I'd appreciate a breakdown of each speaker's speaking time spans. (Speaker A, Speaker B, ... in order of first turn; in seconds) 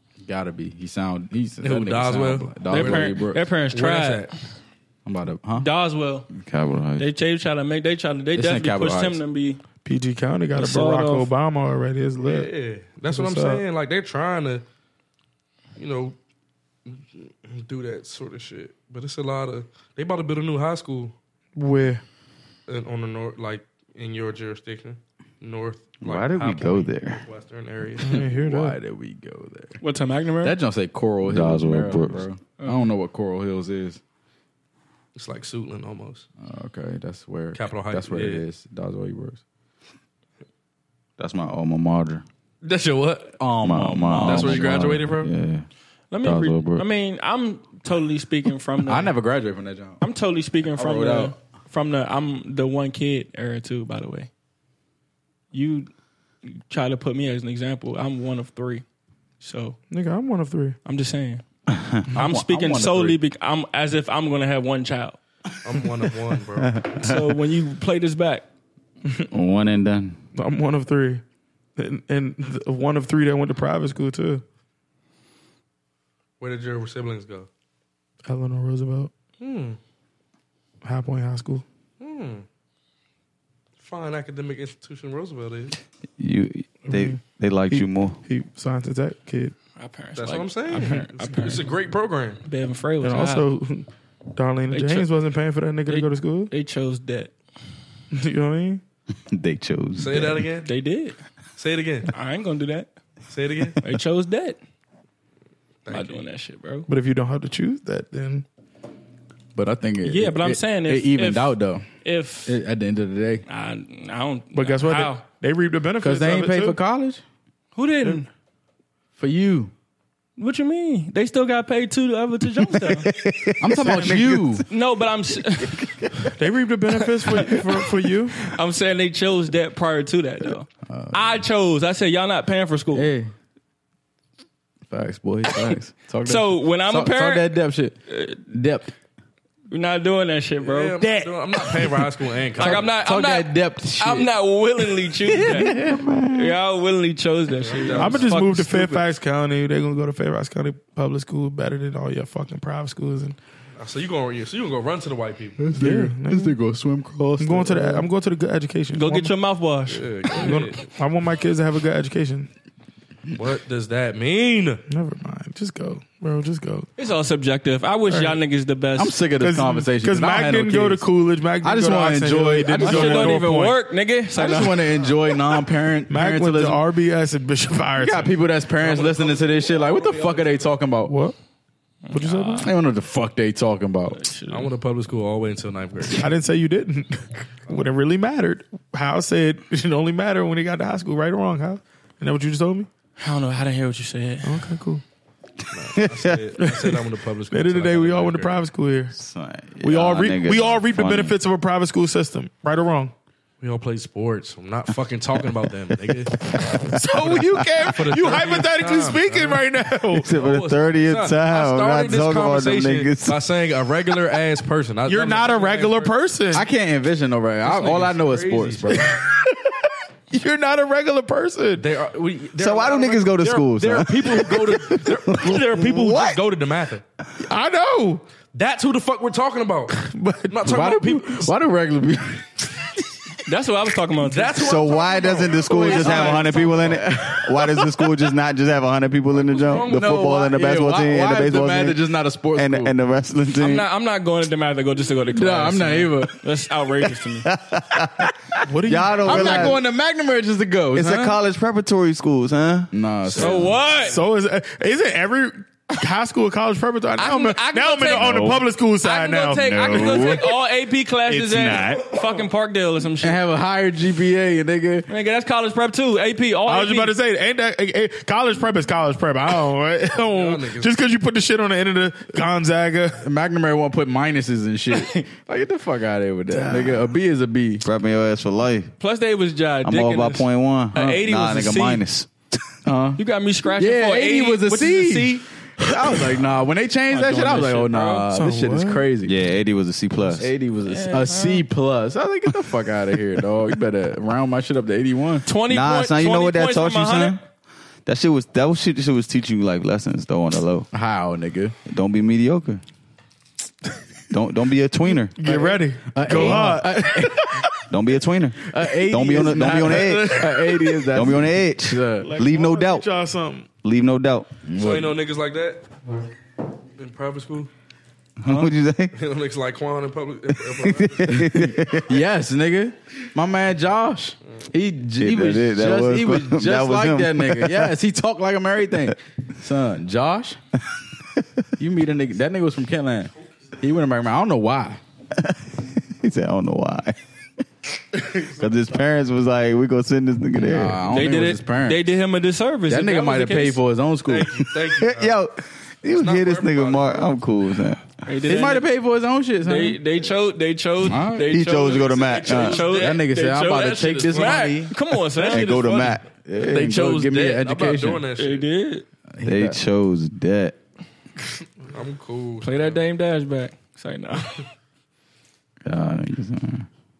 Speaker A: 0.2-3.4, 5.0-5.7, 8.4-9.2, 28.2-29.8, 30.4-34.0, 36.4-39.4, 43.4-44.9, 48.9-50.0, 50.8-51.3, 62.1-63.2, 109.5-111.9, 112.5-113.5, 116.0-117.2, 119.2-119.7, 123.6-124.6, 130.9-131.3, 132.9-133.3, 134.9-138.0, 138.5-138.9, 142.6-144.3, 145.2-146.0, 155.6-158.1, 168.9-171.1, 171.6-173.4, 174.4-176.8, 178.0-181.1, 182.6-184.2, 216.5-219.1, 230.6-232.8, 237.1-237.6, 239.8-242.9, 245.3-246.3, 249.2-251.4, 252.9-253.7, 263.2-265.1, 273.2-277.9, 282.9-283.2, 283.8-289.3, 290.4-295.4, 300.9-301.7, 305.4-307.5, 308.7-312.3, 314.7-315.2, 321.4-330.6, 331.8-335.0, 340.6-342.0, 342.9-344.6, 348.4-350.0, 351.1-351.5, 352.9-354.9, 356.4-358.2, 359.3-359.8
Speaker B: 1.6-4.3, 12.2-14.6, 15.8-16.2, 16.9-21.1, 22.7-28.2, 35.2-36.3, 37.5-38.5, 42.6-43.4, 44.2-45.3, 65.6-66.8, 76.4-77.5, 79.4-79.8, 82.0-82.5, 83.8-85.8, 90.2-92.4, 100.0-100.7, 101.6-102.1, 103.3-103.8, 105.8-106.2, 140.6-142.9, 147.6-148.8, 153.8-155.6, 159.9-160.9, 163.3-164.8, 178.8-180.6, 184.5-186.3, 195.7-198.6, 203.6-206.5, 207.3-209.7, 210.3-216.1, 217.6-219.0, 221.8-227.0, 228.5-231.5, 234.2-236.9, 239.3-240.2, 270.3-270.9, 314.8-315.9, 317.0-317.7, 319.1-321.4, 344.3-345.4, 346.2-347.3, 352.0-354.9, 355.4-358.7, 361.9-363.0
Speaker C: 2.7-4.3, 5.6-6.3, 7.0-9.6, 10.6-11.3, 29.8-30.6, 46.1-49.1, 50.0-54.3, 55.5-55.9, 56.5-58.8, 59.4-59.8, 60.9-61.4, 62.1-65.2, 67.0-68.5, 89.8-91.7, 92.4-93.5, 94.7-95.1, 95.9-97.3, 100.6-101.2, 102.1-102.9, 103.8-104.6, 105.9-106.9, 110.0-112.5, 113.5-115.2, 117.8-118.3, 120.4-123.1, 124.7-125.9, 127.3-127.6, 128.4-133.1, 136.2-137.6, 138.1-138.4, 139.7-141.1, 142.6-145.8, 146.3-149.0, 158.9-160.1, 167.0-169.2, 172.8-175.1, 182.1-182.7, 184.1-184.7, 193.2-194.7, 233.4-234.7, 235.8-236.6, 243.6-247.5, 253.4-254.2, 257.2-263.4, 265.1-267.1, 274.9-275.2, 279.0-282.0, 283.2-285.4, 287.1-288.2, 290.9-291.6, 295.4-297.4, 341.1-343.8, 348.3-348.9, 349.6-355.8, 358.4-359.1, 362.6-364.6
Speaker D: 6.3-7.1, 26.0-27.2, 31.2-32.3, 41.2-42.2, 43.6-45.7, 46.2-46.9, 61.7-62.0, 66.9-67.3, 69.3-70.2, 86.2-88.2, 99.3-100.5, 122.6-124.6, 125.6-126.3, 145.5-146.5, 195.9-196.4, 199.1-201.4, 206.6-207.6, 210.1-213.4, 222.6-226.4, 234.6-242.0, 242.5-243.9, 247.4-249.8, 250.9-252.9, 258.1-258.6, 259.7-260.4, 277.8-278.9, 279.8-282.3, 289.2-290.5, 295.7-297.4, 298.1-300.9, 301.9-302.8, 304.3-305.4, 306.3-306.7, 307.9-313.1, 313.8-314.5, 318.4-319.1, 320.8-322.1, 325.2-327.9, 335.4-337.2, 338.4-341.1, 344.9-348.1, 351.4-352.8, 355.5-356.4, 359.4-360.8, 365.9-366.9
Speaker E: 9.8-12.5, 13.1-13.6, 21.6-22.0, 28.0-28.8, 59.9-60.8, 70.3-71.2, 71.8-74.4, 78.3-79.1, 80.8-81.6, 86.9-89.5, 93.0-96.5, 98.1-98.8, 106.9-108.5, 114.5-116.8, 126.4-128.4, 141.1-142.0, 148.0-153.4, 155.8-156.6, 157.4-159.3, 160.4-162.5, 164.9-166.9, 168.1-168.4, 169.4-173.8, 176.1-178.3, 181.1-181.4, 182.1-182.7, 186.2-192.9, 194.4-195.0, 196.6-199.1, 199.8-203.1, 206.8-210.3, 215.1-216.7, 219.0-221.9, 227.4-228.2, 230.0-230.9, 248.7-249.8, 254.0-260.5, 261.3-262.1, 266.7-273.2, 276.6-276.9, 288.3-289.1, 305.4-307.7, 309.8-310.4, 312.2-313.7